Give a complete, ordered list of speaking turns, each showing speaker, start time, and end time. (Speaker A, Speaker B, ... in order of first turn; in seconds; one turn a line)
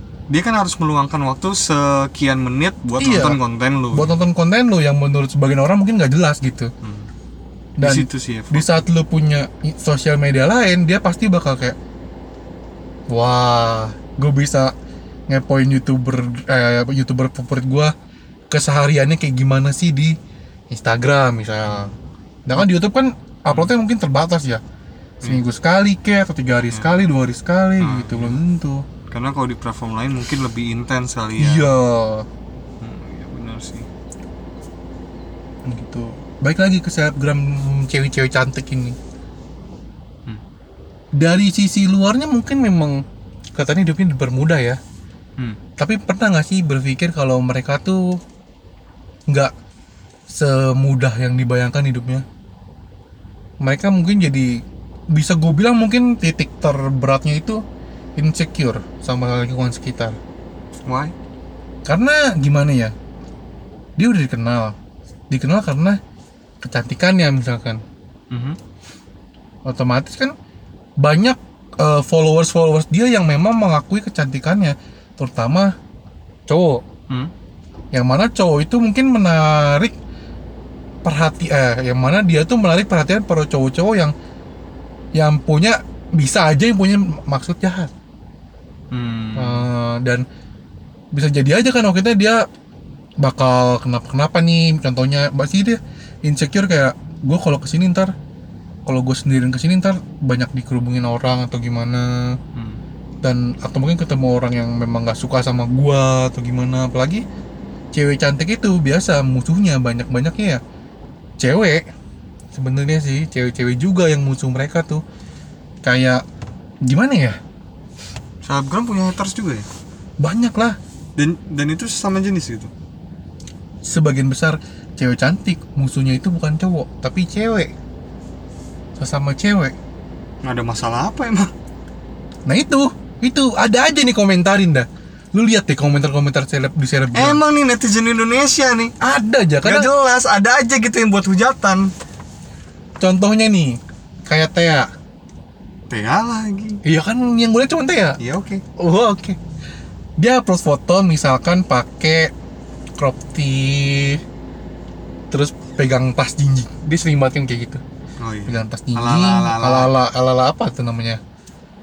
Speaker A: 0.3-4.2
Speaker B: 3.0-3.4
Speaker B: 3.9-6.7
Speaker A: 6.8-7.1
Speaker B: 7.8-11.8
Speaker A: 7.8-8.7
Speaker B: 13.1-14.7
Speaker B: 15.3-17.9
Speaker B: 18.5-20.1
Speaker B: 20.7-21.9
Speaker A: 21.6-22.0
Speaker B: 22.5-24.6
Speaker B: 25.2-28.8
Speaker A: 26.7-27.0
Speaker A: 27.8-28.4
Speaker A: 29.1-31.7
Speaker B: 31.4-32.3
Speaker A: 32.8-33.9
Speaker B: 35.7-39.0
Speaker B: 41.2-43.0
Speaker B: 43.6-44.8
Speaker B: 45.8-48.2
Speaker B: 50.3-52.2
Speaker B: 53.6-57.6
Speaker B: 58.2-60.2
Speaker A: 60.9-61.1
Speaker B: 61.9-62.9
Speaker B: 64.0-64.8
Speaker B: 65.3-66.0
Speaker B: 66.6-67.8
Speaker A: 68.3-68.6
Speaker B: 69.7-70.3
Speaker B: 71.0-75.7
Speaker B: 76.5-76.8
Speaker B: 77.9-79.9
Speaker B: 81.0-84.1
Speaker B: 85.2-87.9
Speaker A: 88.9-89.7
Speaker B: 89.4-90.2
Speaker B: 91.1-92.5
Speaker B: 93.2-98.1
Speaker B: 98.9-102.4
Speaker A: 102.5-102.8
Speaker B: 103.2-107.2
Speaker B: 107.9-110.6
Speaker B: 111.4-111.9
Speaker B: 112.5-115.0
Speaker B: 115.8-116.2
Speaker B: 116.8-117.4
Speaker A: 118.4-119.7
Speaker B: 120.2-120.8
Speaker A: 121.2-122.7
Speaker B: 123.8-127.7
Speaker B: 129.0-129.8
Speaker A: 130.4-131.5
Speaker B: 132.5-137.4
Speaker A: 137.1-138.9
Speaker B: 139.0-139.9
Speaker A: 139.6-141.9
Speaker B: 143.0-144.9
Speaker A: 145.9-146.8
Speaker B: 146.8-148.2
Speaker A: 148.2-148.6
Speaker B: 148.8-149.4
Speaker B: 150.2-152.3
Speaker B: 153.0-154.2
Speaker B: 155.3-157.8
Speaker A: 158.2-159.9
Speaker B: 158.5-161.2